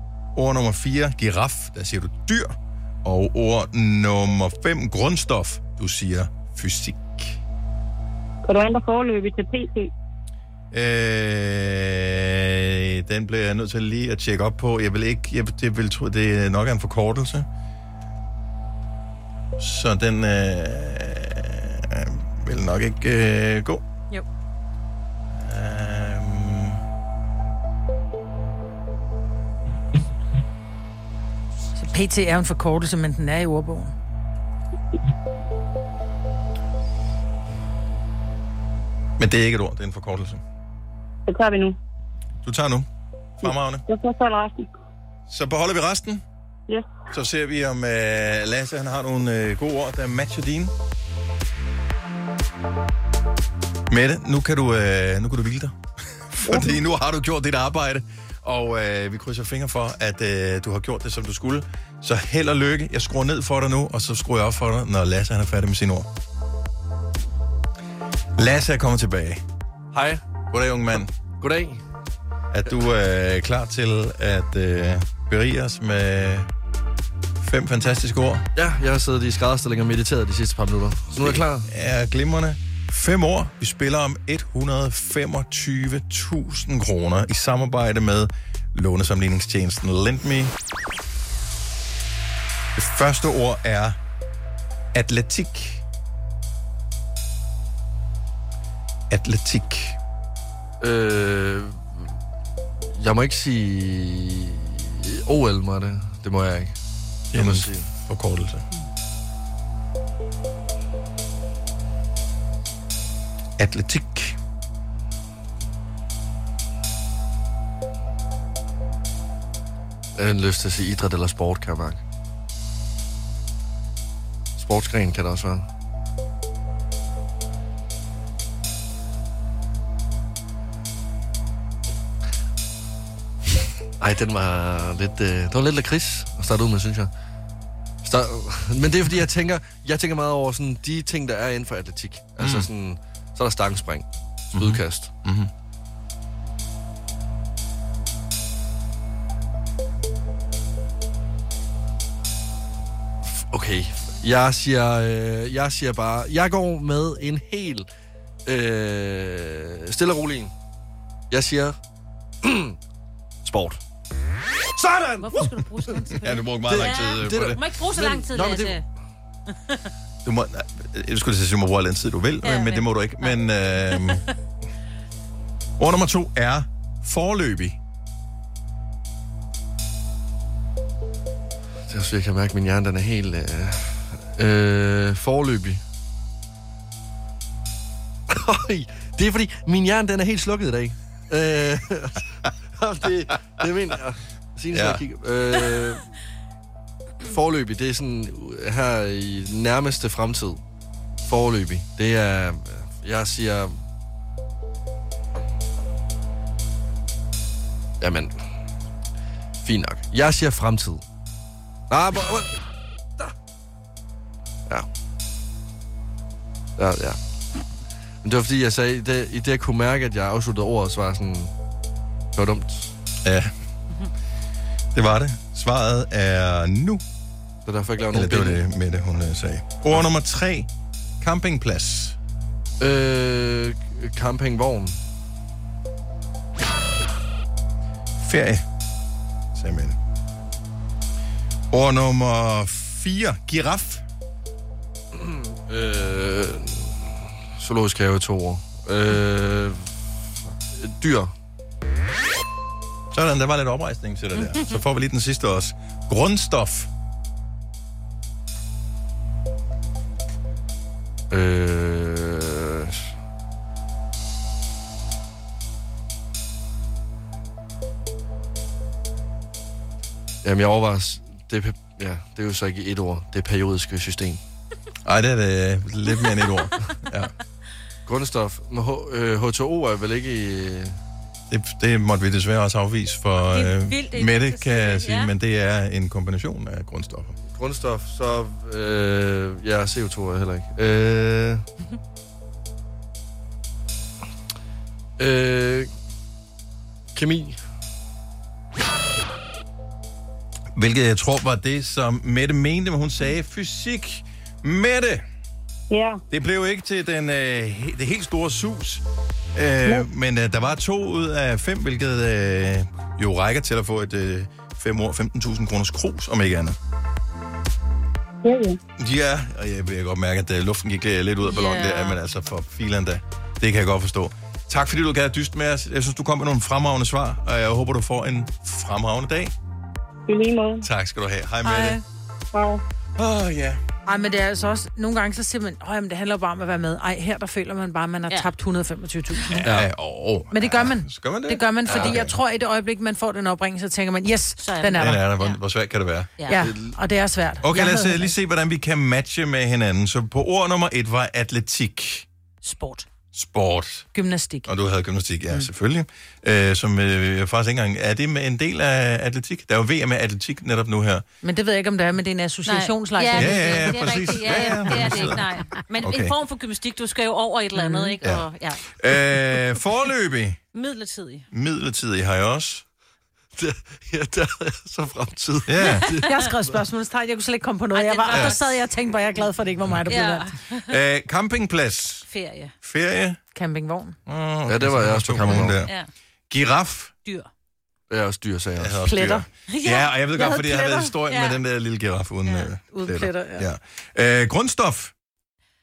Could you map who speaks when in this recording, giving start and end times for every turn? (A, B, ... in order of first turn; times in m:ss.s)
0:00.3-0:07.4 A
0:08.4-0:09.9 B
0:10.7-0:17.5 A
0:19.6-0:23.8 A
0:25.4-0:26.8 A
0:31.8-0:33.9 C
0:39.2-0:40.4 A
0:41.3-0:41.8 B
0:42.4-0:42.9 A
0:43.4-0:43.8 A
0:43.4-0:44.7 B
0:45.3-0:46.2 A
0:47.1-0:50.7 A
0:53.9-0:55.7 A
0:56.3-1:06.1 A
0:56.4-0:56.8 B
1:08.4-1:09.4 A
1:09.9-1:10.2 D
1:10.5-1:11.1 A
1:11.4-1:11.8 D
1:12.5-1:16.5 A
1:17.4-1:18.5 A
1:18.6-1:21.7 D
1:21.2-1:30.5 A
1:32.8-1:34.0 A
1:34.9-1:35.8 A
1:39.1-1:40.0 A
1:40.8-1:42.1 D
1:43.0-1:46.7 D
1:47.3-1:47.9 D
1:47.3-1:48.6 A
1:53.6-1:54.4 A
2:00.2-2:02.0 D
2:04.6-2:05.6 D
2:14.0-2:17.1 D
2:18.0-2:25.1 D
2:22.4-2:22.7 A
2:24.5-2:25.5 A
2:33.2-2:37.9 D
2:38.4-2:40.5 D
2:41.3-2:41.7 D
2:42.4-2:42.8 D
2:43.4-2:43.8 D
2:44.7-2:46.1 D
2:45.2-2:48.8 E
2:46.2-2:47.6 A
2:46.7-2:48.8 D
2:50.2-2:54.2 A
2:52.4-2:53.3 E
2:53.9-2:54.2 E
2:55.8-2:57.8 A
3:01.9-3:05.8 D
3:08.3-3:16.0 D
3:14.7-3:15.0 A
3:17.2-3:20.6 D
3:21.2-3:23.8 D
3:28.0-3:28.4 D
3:29.6-3:31.0 D
3:31.9-3:32.6 D
3:36.8-3:37.2 D
3:38.2-3:41.5 D
3:42.3-3:42.9 D
3:43.2-3:43.5 A
3:44.9-3:47.0 A
3:47.6-3:48.6 D
3:48.1-3:50.7 A
3:51.2-3:52.2 A
3:52.8-3:55.0 D
3:58.2-3:58.6 A
3:59.5-4:00.0 A
4:01.7-4:04.0 A
4:05.1-4:09.8 D
4:10.7-4:11.3 D
4:13.1-4:16.9 A
4:21.3-4:23.1 D
4:30.4-4:34.4 D
4:35.0-4:37.3 A
4:38.1-4:40.9 D
4:41.5-4:47.3 A
4:43.4-4:45.3 E
4:47.5-4:51.6 D
4:55.2-4:55.9 D
4:57.1-4:57.6 D
5:00.7-5:05.2 A
5:05.9-5:06.2 B
5:06.3-5:09.0 A
5:09.5-5:16.8 A
5:18.4-5:18.8 B
5:19.0-5:29.5 A
5:21.4-5:22.2 E
5:30.3-5:30.9 B
5:30.8-5:32.0 A
5:32.5-5:32.8 B
5:33.2-5:33.8 A
5:34.1-5:39.6 C
5:39.6-5:42.3 A
5:40.5-5:45.2 C
5:44.6-5:45.6 E
5:45.0-5:46.3 A
5:46.5-5:48.3 C
5:46.6-5:46.9 D
5:47.6-5:52.2 A
5:52.7-5:53.0 C
5:53.3-5:54.1 A
5:54.1-5:54.7 C
5:54.6-6:01.2 A
6:01.4-6:05.1 C
6:02.6-6:08.9 E
6:03.3-6:05.4 A
6:06.0-6:06.3 A
6:07.8-6:08.1 C
6:09.0-6:10.6 A
6:10.7-6:11.4 E
6:11.5-6:12.8 A
6:13.6-6:16.3 D
6:15.7-6:16.1 A
6:16.2-6:20.5 C
6:17.9-6:18.7 E
6:18.3-6:18.6 A
6:20.0-6:20.9 E
6:20.9-6:22.3 A
6:22.3-6:22.7 E
6:22.8-6:23.4 A
6:23.5-6:24.2 C
6:24.3-6:25.9 A
6:24.7-6:25.8 D
6:25.8-6:26.1 E
6:26.5-6:27.1 A
6:28.1-6:29.0 D
6:28.8-6:35.1 A
6:29.0-6:29.4 C
6:29.7-6:31.6 E
6:32.9-6:33.7 C